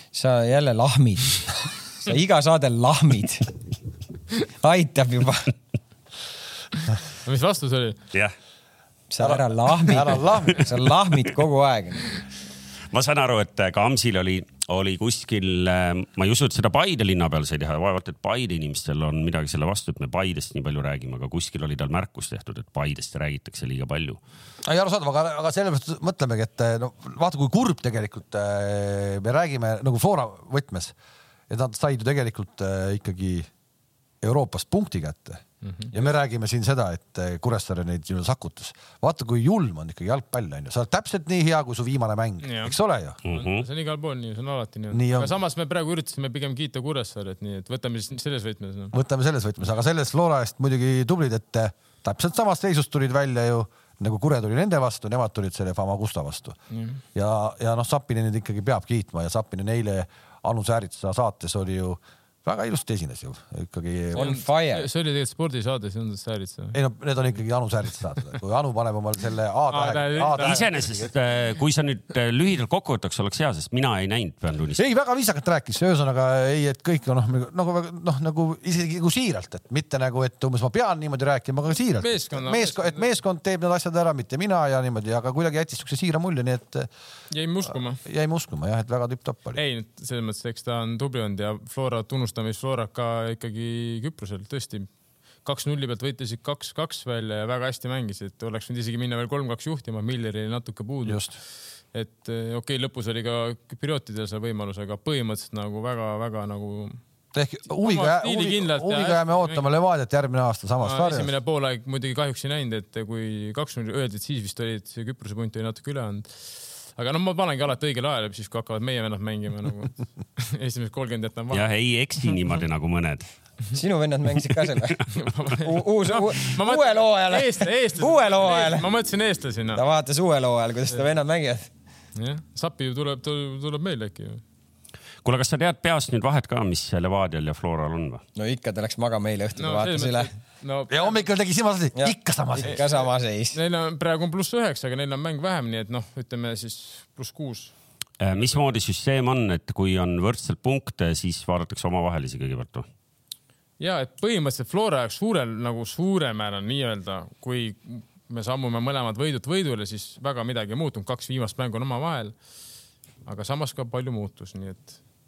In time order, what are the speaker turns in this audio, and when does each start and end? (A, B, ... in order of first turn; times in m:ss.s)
0:00.1-0:01.4 A
0:02.0-0:03.5 A
0:04.6-0:05.5 A
0:07.2-0:08.0 B
0:09.1-0:12.2 A
0:09.2-0:10.7 C
0:12.9-0:24.2 D
0:24.6-0:30.9 C
0:31.5-0:33.5 C
0:34.2-0:43.2 C
0:35.6-0:36.0 B
0:42.4-0:42.8 B
0:43.2-0:43.7 D
0:43.3-0:48.9 B
0:44.9-0:45.4 C
0:48.9-0:56.6 C
0:56.7-0:57.0 B
0:57.2-1:04.4 C
1:04.1-1:04.9 A
1:04.2-1:06.8 B
1:06.7-1:11.1 C
1:09.7-1:10.7 B
1:10.3-1:14.8 D
1:14.8-1:26.9 C
1:22.0-1:23.0 B
1:27.3-1:28.0 B
1:28.0-1:29.6 C
1:29.6-1:34.9 B
1:35.4-1:41.2 B
1:41.0-1:41.3 C
1:41.9-1:47.0 B
1:47.3-1:51.3 C
1:47.8-1:49.6 B
1:50.8-2:01.7 B
2:01.5-2:03.2 D
2:03.7-2:05.0 A
2:05.1-2:09.8 B
2:05.6-2:08.9 A
2:09.7-2:11.7 A
2:12.2-2:14.4 B
2:15.2-2:18.2 D
2:18.4-2:20.3 A
2:19.6-2:21.2 B
2:20.9-2:22.8 C
2:22.0-2:23.6 A
2:22.6-2:23.0 B
2:23.5-2:27.7 B
2:28.2-2:32.9 D
2:28.3-2:28.6 B
2:33.8-2:42.4 B
2:43.2-2:45.0 B